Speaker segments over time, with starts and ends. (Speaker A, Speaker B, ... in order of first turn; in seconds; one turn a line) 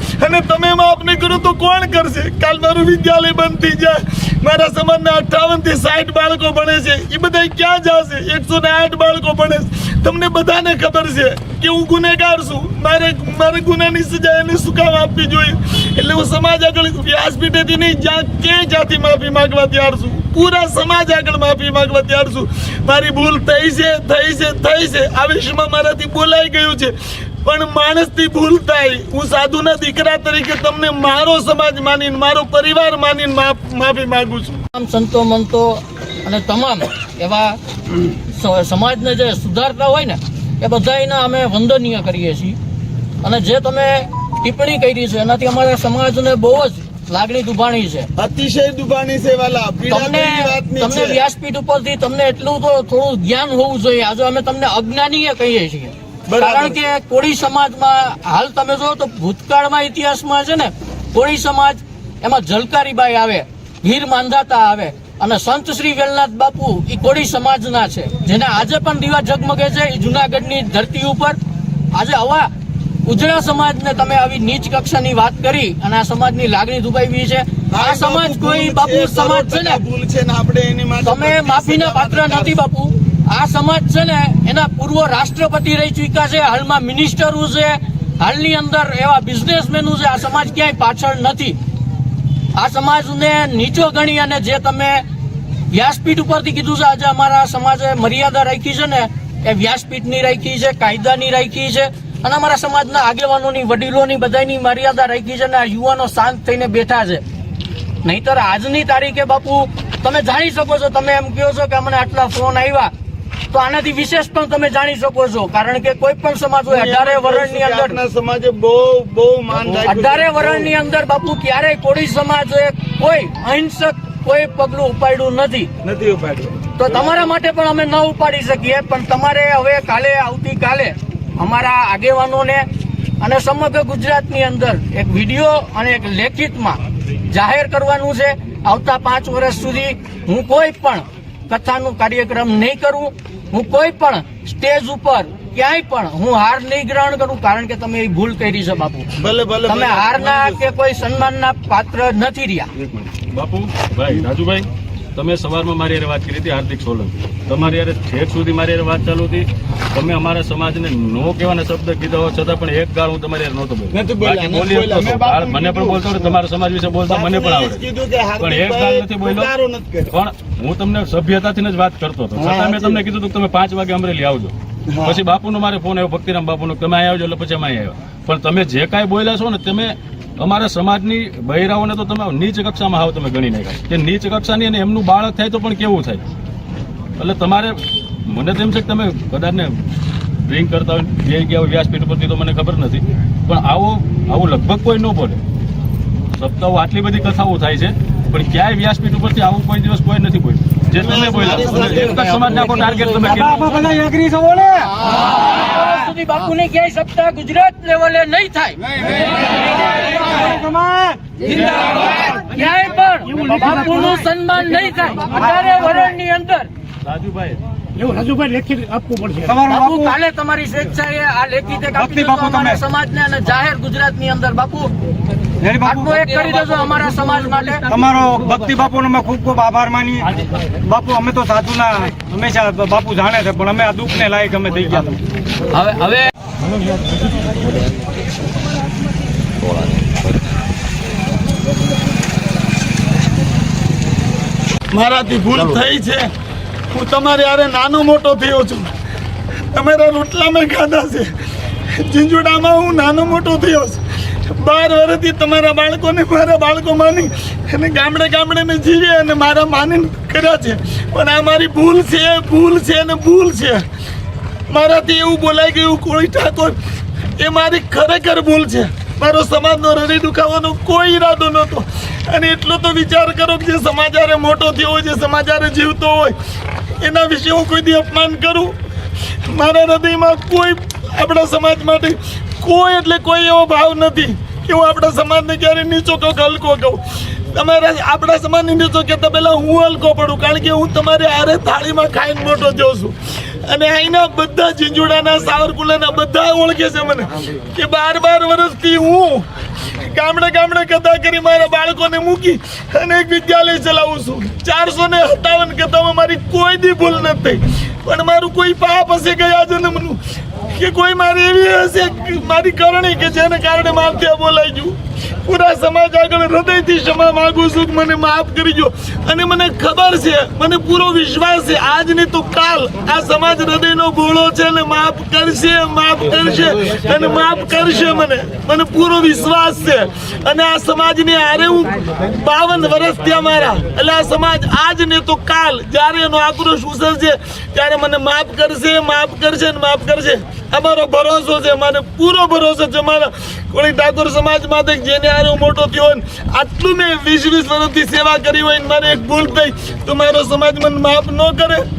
Speaker A: 0.2-26.9
Speaker A: 27.4-34.6
Speaker B: 34.7-37.6
Speaker B: 38.3-42.6
Speaker B: 43.2-48.1
Speaker A: 48.2-51.2
Speaker B: 49.9-71.4
Speaker A: 56.3-56.8
Speaker B: 71.9-72.5
Speaker B: 73.0-79.8
Speaker A: 77.7-82.6
Speaker B: 81.0-91.5
Speaker B: 92.5-95.0
Speaker B: 95.7-107.2
Speaker B: 108.0-112.9
Speaker B: 113.5-118.0
Speaker A: 116.7-120.7
Speaker B: 119.8-125.7
Speaker A: 125.8-126.7
Speaker B: 126.8-132.6
Speaker B: 133.2-149.1
Speaker A: 149.2-150.5
Speaker B: 149.7-152.7
Speaker C: 152.7-169.5
Speaker A: 163.9-166.1
Speaker A: 167.0-170.1
Speaker C: 170.1-186.2
Speaker A: 172.3-173.0
Speaker A: 174.9-175.2
Speaker C: 187.2-189.8
Speaker C: 190.4-195.4
Speaker C: 196.4-203.8
Speaker A: 201.0-202.6
Speaker D: 203.2-205.0
Speaker B: 205.4-209.2
Speaker D: 210.1-211.4
Speaker B: 211.7-216.7
Speaker C: 217.0-217.6
Speaker D: 219.4-220.1
Speaker B: 219.7-224.9
Speaker D: 221.9-222.8
Speaker D: 225.6-226.3
Speaker B: 225.8-227.9
Speaker D: 227.9-235.2
Speaker B: 235.7-236.3
Speaker A: 244.9-246.3
Speaker A: 246.9-248.9
Speaker A: 249.7-251.3
Speaker A: 251.9-263.8
Speaker A: 264.7-266.8
Speaker A: 267.4-276.4
Speaker A: 277.0-278.7
Speaker A: 279.5-287.0
Speaker A: 287.5-293.1
Speaker A: 293.7-310.2
Speaker A: 310.7-351.8